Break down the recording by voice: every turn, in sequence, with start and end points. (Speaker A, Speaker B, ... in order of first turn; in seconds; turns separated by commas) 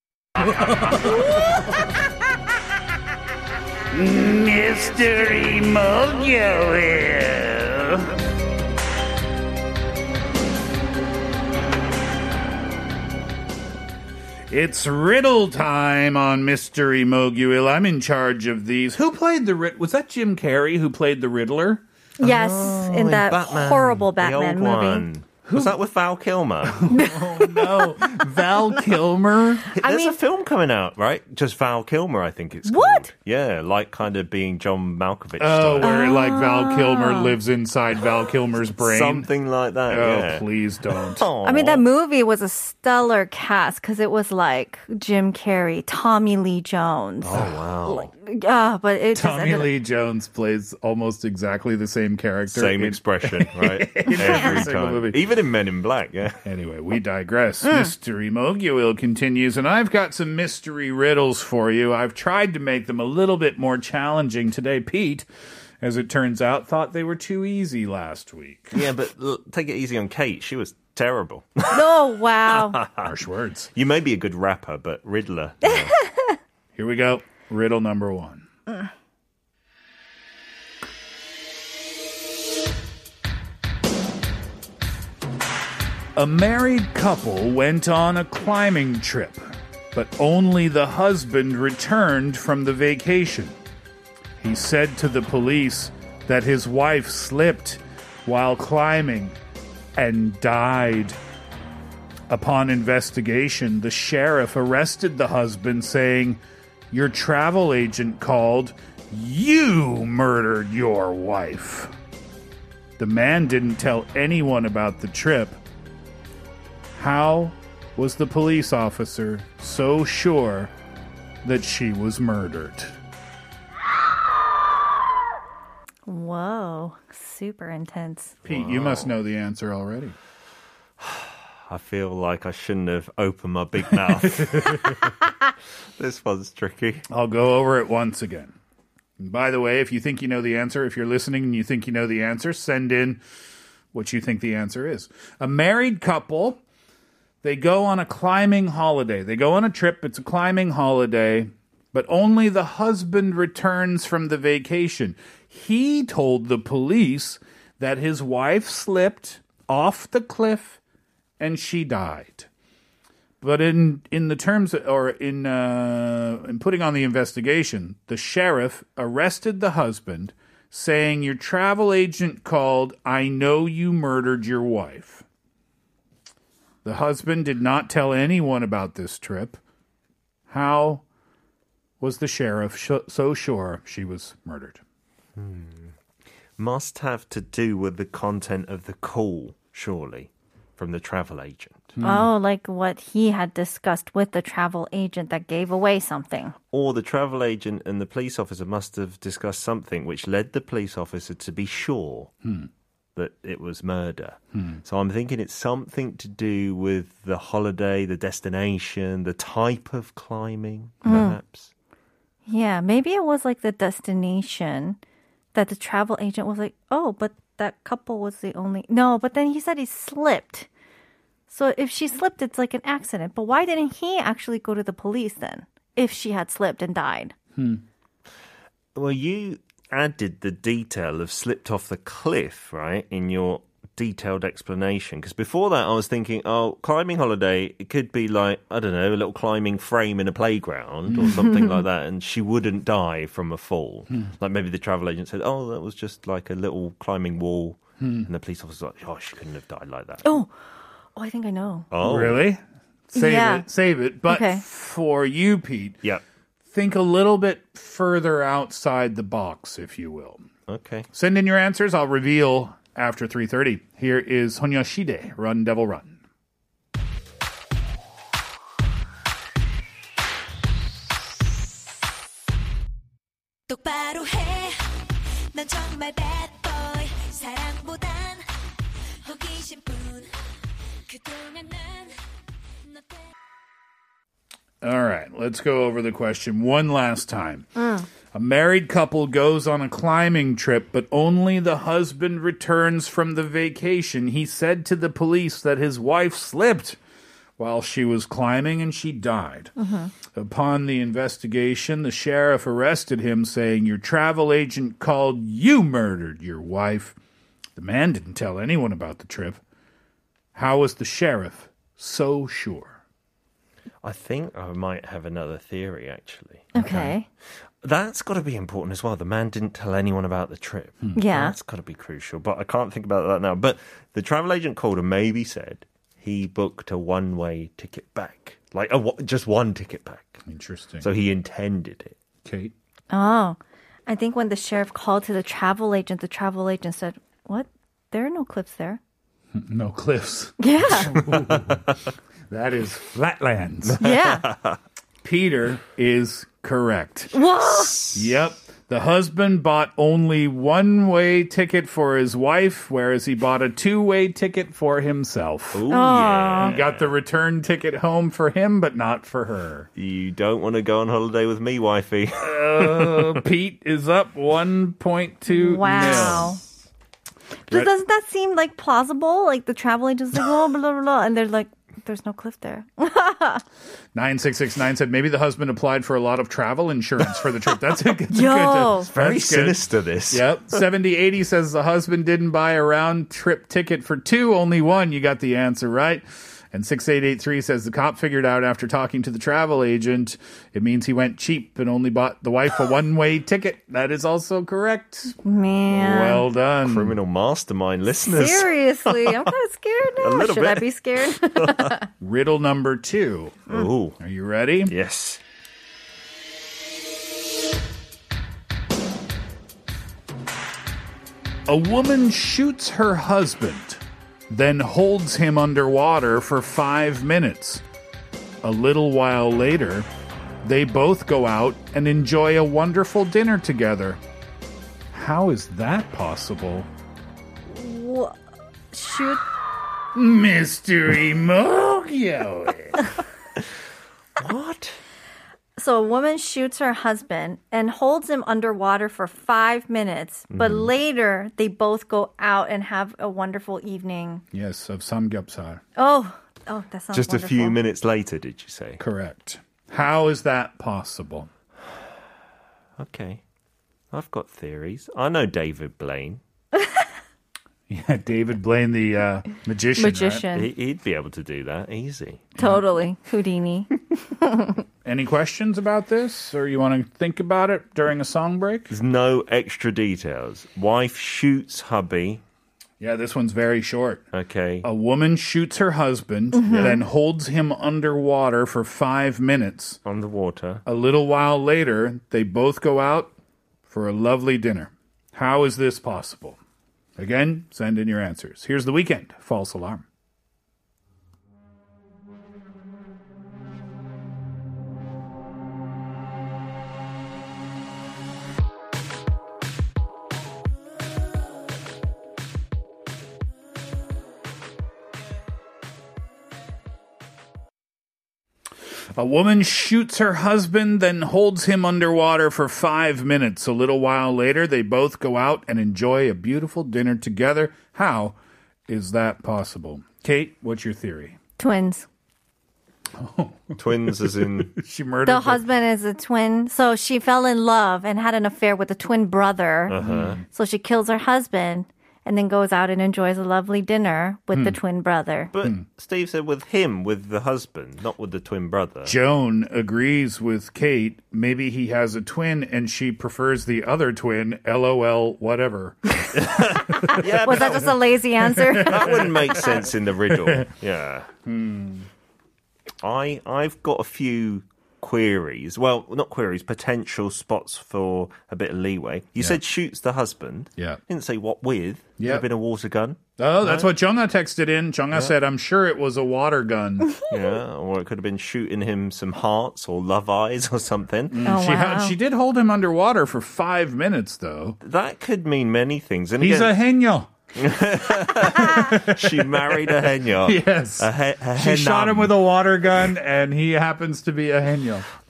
Speaker A: 0.4-1.9, Speaker A: 3.9-8.1, Speaker A: 14.5-21.8, Speaker B: 22.2-25.0, Speaker C: 22.2-26.9, Speaker A: 25.4-25.8, Speaker A: 26.6-29.7, Speaker B: 26.9-28.0, Speaker B: 29.7-30.1, Speaker C: 29.8-36.0, Speaker B: 32.7-33.1, Speaker A: 35.4-39.3, Speaker B: 35.8-37.4, Speaker C: 38.8-41.8, Speaker A: 39.9-41.2, Speaker B: 41.4-49.7, Speaker C: 47.2-48.1, Speaker A: 49.1-55.2, Speaker C: 52.5-56.4, Speaker B: 54.1-54.6, Speaker A: 56.4-65.2, Speaker B: 57.6-57.9, Speaker A: 65.8-68.8, Speaker C: 68.7-72.0, Speaker B: 71.7-72.8, Speaker C: 72.5-73.1, Speaker A: 73.0-73.7, Speaker C: 73.8-76.0, Speaker B: 75.6-76.3, Speaker A: 76.7-78.4, Speaker A: 86.2-93.6, Speaker A: 94.4-99.4, Speaker A: 100.0-101.2, Speaker A: 102.3-106.4, Speaker A: 106.9-111.9, Speaker A: 113.0-115.6, Speaker A: 116.9-120.7, Speaker A: 121.4-122.9, Speaker B: 126.1-128.3, Speaker A: 128.4-130.1, Speaker C: 128.5-129.1, Speaker C: 131.0-135.2, Speaker A: 134.1-135.1, Speaker C: 136.0-137.0, Speaker A: 137.1-138.5, Speaker A: 139.2-143.2, Speaker A: 143.9-146.6, Speaker A: 147.4-160.8, Speaker A: 161.4-162.5, Speaker A: 163.4-175.2, Speaker A: 176.8-179.6, Speaker A: 180.5-181.0, Speaker A: 182.0-184.8, Speaker C: 185.4-185.9, Speaker C: 186.6-192.0, Speaker A: 192.0-192.3, Speaker B: 192.0-196.5, Speaker C: 196.7-202.3, Speaker A: 202.4-202.7, Speaker C: 203.1-211.7, Speaker A: 204.5-204.8, Speaker A: 211.0-211.3, Speaker B: 211.1-211.4, Speaker B: 212.5-215.0, Speaker B: 215.5-220.7, Speaker B: 221.5-227.3, Speaker A: 227.6-227.8, Speaker C: 228.9-250.3, Speaker A: 241.1-241.6, Speaker A: 248.0-248.3, Speaker B: 250.2-250.5, Speaker B: 251.2-251.9, Speaker C: 251.9-252.4, Speaker A: 252.0-256.0, Speaker B: 253.2-253.6, Speaker B: 254.3-254.6, Speaker A: 256.7-260.4, Speaker C: 260.7-261.1, Speaker A: 261.1-266.2, Speaker D: 273.7-278.5, Speaker D: 279.2-280.3, Speaker D: 281.1-282.2, Speaker D: 282.8-283.3, Speaker A: 284.8-287.7, Speaker B: 287.8-288.1, Speaker A: 288.3-297.0, Speaker A: 297.6-299.7, Speaker B: 299.8-300.1, Speaker A: 300.3-307.1, Speaker A: 307.8-309.6, Speaker A: 310.5-313.0, Speaker C: 314.0-316.7, Speaker A: 316.7-317.1, Speaker B: 316.7-317.2, Speaker C: 317.8-330.4, Speaker B: 321.1-321.6, Speaker A: 330.4-331.1, Speaker C: 331.0-332.1, Speaker A: 332.4-332.7, Speaker B: 333.1-339.0, Speaker A: 339.5-341.9, Speaker B: 340.6-341.1, Speaker C: 341.2-341.8, Speaker A: 342.5-344.0, Speaker C: 343.8-344.8, Speaker B: 344.0-344.4, Speaker A: 345.2-347.3, Speaker B: 347.3-348.1, Speaker A: 348.1-355.8, Speaker C: 355.7-357.0, Speaker B: 355.9-356.8, Speaker A: 356.6-359.9, Speaker C: 359.9-363.4, Speaker A: 362.4-366.5, Speaker B: 365.5-366.6, Speaker C: 365.9-366.5, Speaker B: 367.7-373.6, Speaker A: 374.1-395.4, Speaker B: 378.3-379.1, Speaker C: 379.1-380.8, Speaker B: 395.4-396.4, Speaker A: 395.9-397.2, Speaker C: 396.8-399.5, Speaker B: 398.2-402.0, Speaker C: 400.2-401.9, Speaker A: 402.2-404.9, Speaker C: 403.7-404.2, Speaker C: 404.9-405.4, Speaker A: 411.7-417.8, Speaker A: 418.6-420.1, Speaker A: 420.6-424.2, Speaker A: 425.1-426.9, Speaker B: 427.7-428.3, Speaker B: 428.9-429.4, Speaker A: 430.1-433.0, Speaker C: 434.4-435.0, Speaker B: 435.8-444.4, Speaker C: 440.5-440.9, Speaker A: 444.5-445.8, Speaker B: 445.9-447.8, Speaker C: 447.1-449.0, Speaker A: 449.0-451.5, Speaker C: 453.0-453.4, Speaker C: 454.1-456.4, Speaker A: 457.9-460.4, Speaker B: 460.0-460.7, Speaker C: 460.5-462.5, Speaker B: 462.6-464.8, Speaker A: 465.0-468.9, Speaker C: 468.9-472.4, Speaker A: 473.0-474.2, Speaker C: 474.3-474.9, Speaker A: 474.8-480.0, Speaker B: 476.5-477.0, Speaker C: 480.0-480.8, Speaker A: 480.9-483.3, Speaker A: 483.9-486.6, Speaker A: 487.2-490.0, Speaker A: 509.1-518.4, Speaker A: 518.9-521.4, Speaker B: 521.6-522.1, Speaker A: 523.1-525.6, Speaker C: 523.8-524.7, Speaker B: 525.2-530.0, Speaker C: 529.9-530.4, Speaker A: 530.0-530.4, Speaker B: 530.5-535.5, Speaker C: 535.5-539.1, Speaker A: 539.0-547.8, Speaker C: 546.3-548.1, Speaker B: 547.0-549.8, Speaker A: 548.6-550.7, Speaker C: 548.7-551.3, Speaker A: 551.4-552.1, Speaker C: 553.0-563.9, Speaker A: 562.2-562.5, Speaker A: 563.4-567.1, Speaker C: 567.3-571.5, Speaker A: 571.3-574.8, Speaker B: 571.5-572.1, Speaker C: 574.8-576.7, Speaker A: 576.4-577.3, Speaker C: 577.5-582.3, Speaker A: 578.2-585.1